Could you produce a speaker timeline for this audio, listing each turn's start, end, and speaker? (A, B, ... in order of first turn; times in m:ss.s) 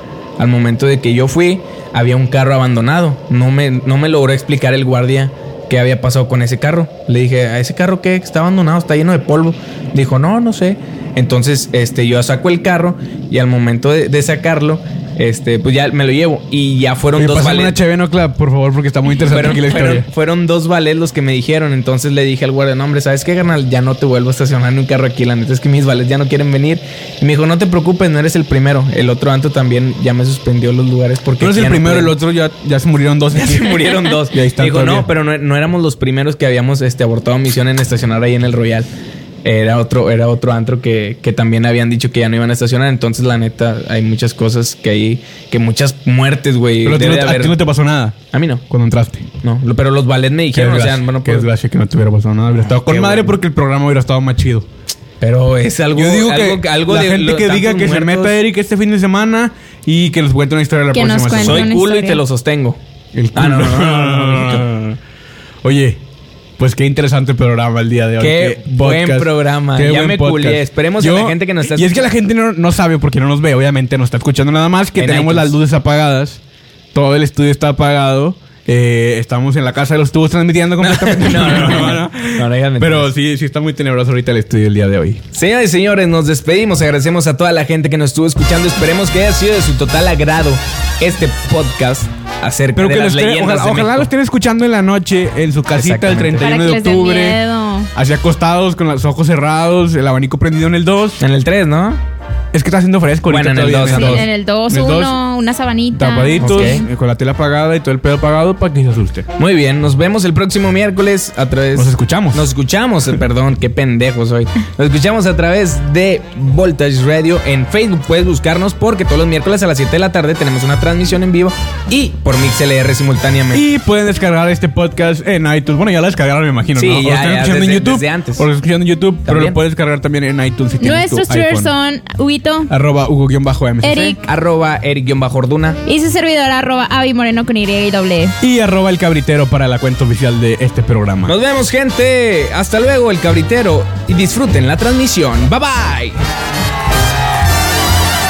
0:00.4-0:17.8 A
0:17.2-0:20.1 B
0:19.2-0:32.1 A
0:31.4-0:35.1 B
0:33.3-0:38.9 A
0:39.4-0:47.6 A
0:46.8-0:48.2 B
0:48.3-0:48.6 A
0:48.7-0:49.3 B
0:49.4-0:51.5 A
0:50.5-0:54.7 B
0:52.6-0:53.4 A
0:55.2-0:58.4 A
0:55.9-1:01.7 B
1:00.9-1:02.2 C
1:01.3-1:02.8 A
1:03.1-1:05.0 B
1:03.3-1:04.8 A
1:05.6-1:06.0 B
1:06.6-1:16.4 B
1:08.2-1:12.1 A
1:15.0-1:15.5 A
1:16.9-1:25.2 B
1:20.8-1:23.1 A
1:25.3-1:34.1 A
1:32.7-1:37.4 B
1:35.7-1:36.4 A
1:36.4-1:37.9 C
1:37.9-1:41.2 B
1:41.2-1:42.0 A
1:42.5-1:45.2 B
1:43.3-1:44.3 A
1:43.8-1:46.8 C
1:45.9-1:49.3 B
1:46.4-1:46.8 A
1:49.4-2:03.6 A
1:51.7-1:52.5 B
2:03.5-2:11.7 B
2:06.8-2:08.4 A
2:09.2-2:09.6 A
2:10.8-2:12.7 C
2:12.7-2:14.2 B
2:13.8-2:14.3 C
2:14.1-2:15.8 A
2:15.8-2:18.3 C
2:18.4-2:21.4 B
2:21.2-2:26.2 A